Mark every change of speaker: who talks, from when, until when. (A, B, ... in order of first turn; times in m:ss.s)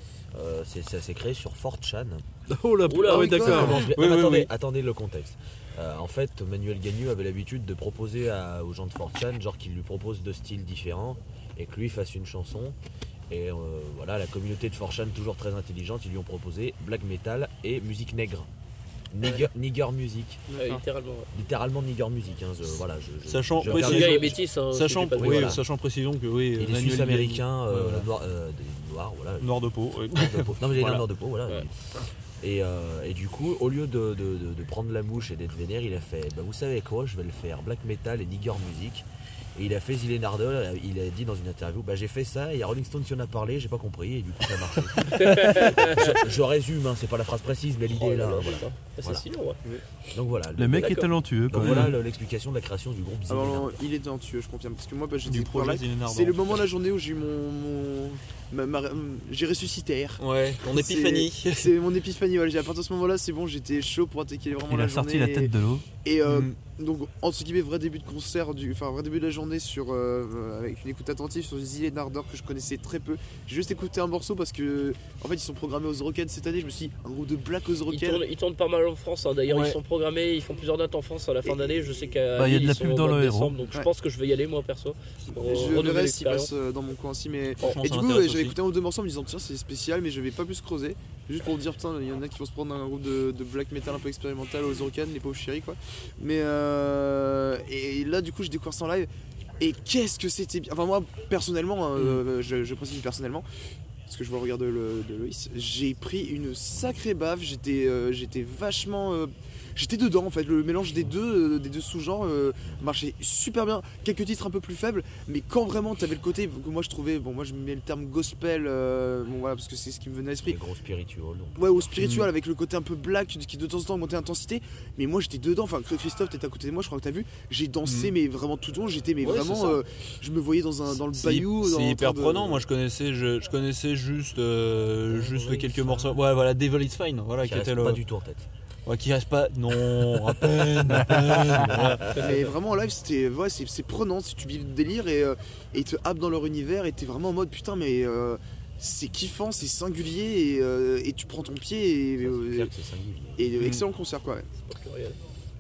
0:00.3-0:02.2 A
0:02.5-0:03.8 B
0:02.9-0:03.6 C
0:03.1-0:03.8 D
0:03.4-0:12.8 A
0:03.9-0:04.5 E
0:13.3-0:18.5 A
0:19.1-0:20.4 A
0:20.5-0:20.8 D
0:20.5-0:21.3 C
0:21.3-0:24.4 A
0:23.3-0:28.1 E
0:23.6-0:25.6 C
0:25.2-0:25.6 A
0:26.6-0:29.6 A
0:29.4-0:31.1 E
0:30.1-0:49.2 A
0:45.0-0:46.3 C
0:47.9-0:49.6 C
0:50.1-0:51.0 A
0:50.6-0:52.0 B
0:50.7-0:51.1 C
0:51.5-0:53.8 A
0:51.6-0:52.0 E
0:53.3-1:05.5 D
0:55.2-0:56.6 E
1:00.2-1:01.8 E
1:04.7-1:05.9 B
1:06.0-1:18.2 D
1:06.2-1:06.6 E
1:17.9-1:26.5 C
1:19.5-1:19.8 E
1:21.4-1:22.1 D
1:22.4-1:23.6 B
1:25.3-1:39.1 D
1:27.6-1:28.6 E
1:39.6-1:43.4 D
1:42.0-1:42.2 E
1:44.1-2:00.6 D
1:46.7-1:47.0 A
2:00.4-2:02.0 A
2:01.6-2:12.7 D
2:02.0-2:02.3 E
2:07.8-2:08.1 E
2:09.2-2:09.8 E
2:10.9-2:18.0 E
2:15.2-2:16.0 A
2:17.4-2:18.5 A
2:18.9-2:22.4 E
2:20.1-2:22.2 A
2:22.2-2:32.7 D
2:32.2-2:33.6 A
2:33.4-2:34.5 D
2:33.6-2:33.8 E
2:34.5-2:35.2 C